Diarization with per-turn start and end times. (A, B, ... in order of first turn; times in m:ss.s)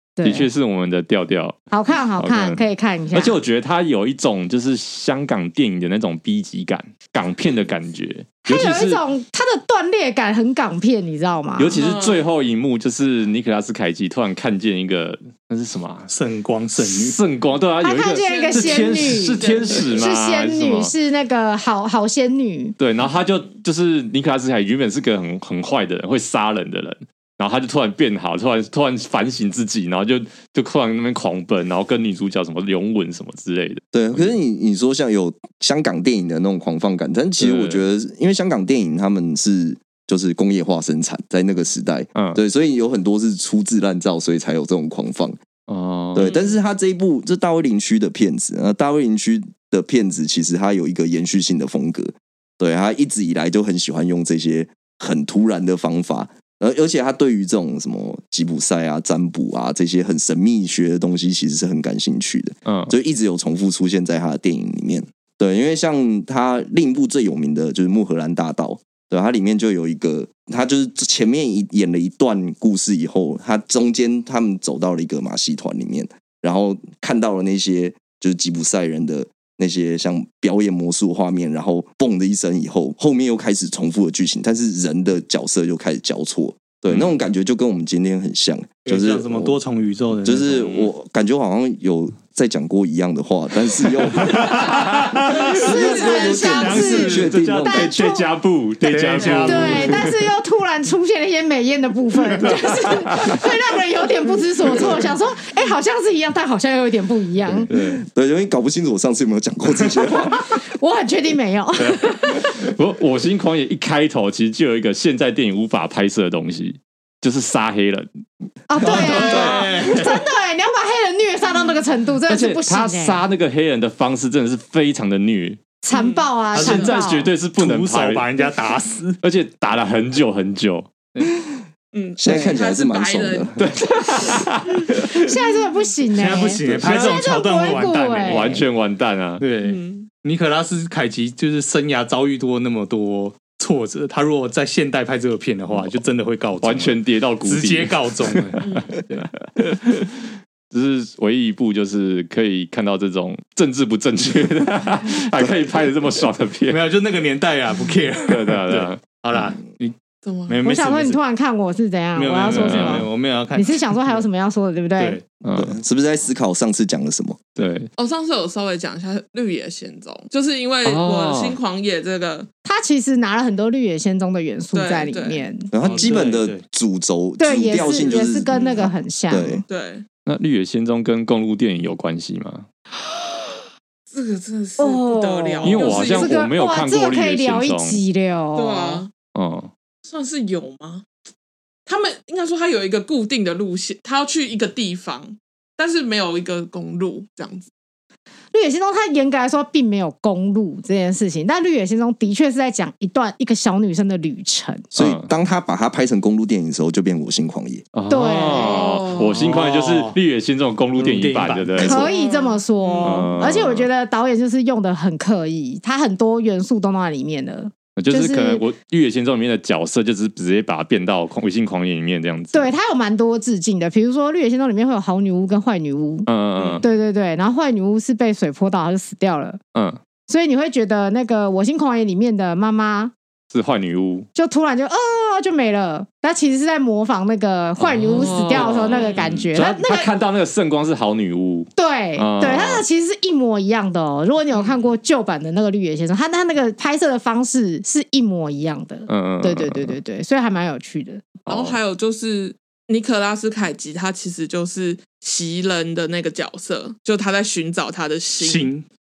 0:00.2-0:00.5 A
0:00.2-0:01.6 B
0:01.7-0:03.4 A
0:02.2-0:09.0 B
0:08.4-0:11.8 A
0:11.6-0:16.1 B
0:11.8-0:12.3 C
0:16.1-0:17.2 D
0:16.8-0:20.9 B
0:17.8-0:22.8 A
0:18.2-0:20.0 C
0:22.8-0:34.3 B
0:33.9-0:45.4 E
0:37.4-0:37.8 B
0:42.1-0:42.4 B
0:45.7-0:46.3 B
0:46.1-1:29.6 E
0:46.2-0:46.5 C
1:02.7-1:02.9 B
1:28.8-1:30.8 D
1:30.2-1:34.8 E
1:34.2-1:35.6 D
1:34.7-1:35.0 B
1:35.3-1:38.3 A
1:35.5-1:37.0 C
1:36.0-1:37.9 E
1:36.4-1:37.3 D
1:37.1-1:40.3 B
1:38.8-1:40.0 D
1:39.2-1:39.5 C
1:39.4-1:47.7 A
1:42.4-1:43.5 B
1:47.5-1:50.6 E
1:47.6-1:48.0 B
1:50.5-1:52.7 A
1:51.8-1:58.1 B
1:58.7-2:03.2 A
1:58.8-2:00.2 D
1:58.9-1:59.4 B
2:02.2-2:05.6 B
2:05.8-2:07.3 A
2:05.9-2:07.0 C
2:06.5-2:09.2 D
2:06.5-2:08.3 B
2:09.2-2:10.9 B
2:11.9-2:13.5 C
2:12.2-2:13.6 E
2:12.3-2:12.6 D
2:13.6-2:15.4 B
2:15.1-2:18.6 A
2:16.2-2:18.5 D
2:16.6-2:16.9 E
2:18.2-2:19.4 B
2:19.4-2:29.2 D
2:19.6-2:20.1 C
2:26.6-2:36.8 B
2:28.6-2:28.9 C
2:36.7-2:40.0 D
2:38.3-2:39.0 B
2:40.2-2:40.6 C
2:40.5-2:41.2 D
2:40.6-2:45.2 A
2:42.1-2:44.2 D
2:42.4-2:43.1 B
2:45.0-2:45.2 D
2:45.4-2:45.8 B
2:45.5-2:47.4 E
2:47.6-2:47.9 B
2:48.0-2:52.5 C
2:50.8-2:51.6 B
2:52.6-2:55.7 A
2:54.7-2:55.4 C
2:55.7-2:59.6 E
2:55.8-2:56.6 D
2:57.4-2:59.6 A
2:58.5-2:58.9 C
2:59.7-3:00.0 C
3:00.2-3:02.7 B
3:04.1-3:06.4 C
3:04.8-3:09.0 A
3:05.6-3:08.0 B
3:08.5-3:09.1 C
3:09.3-3:09.7 B
3:10.0-3:11.0 C
3:11.8-3:17.7 C
3:18.5-3:24.9 A
3:24.9-3:27.8 E
3:25.0-3:25.3 B
3:27.9-3:32.1 B
3:28.1-3:29.0 A
3:28.5-3:29.4 C
3:29.2-3:30.2 D
3:31.0-3:31.9 D
3:31.7-3:32.1 E
3:31.8-3:38.6 A
3:31.9-3:33.3 C
3:33.0-3:33.9 B
3:38.0-3:42.7 B
3:42.5-3:46.3 A
3:46.2-3:46.8 B
3:46.6-3:46.8 C
3:46.8-3:49.6 A
3:49.7-3:50.0 B
3:50.3-3:53.1 A
3:53.5-3:54.3 B
3:54.3-4:00.1 A
3:57.8-4:02.8 B
3:58.1-3:59.3 C
4:01.8-4:11.3 A
4:09.1-4:10.0 B
4:11.4-4:11.8 B
4:11.5-4:18.7 C
4:18.4-4:18.9 D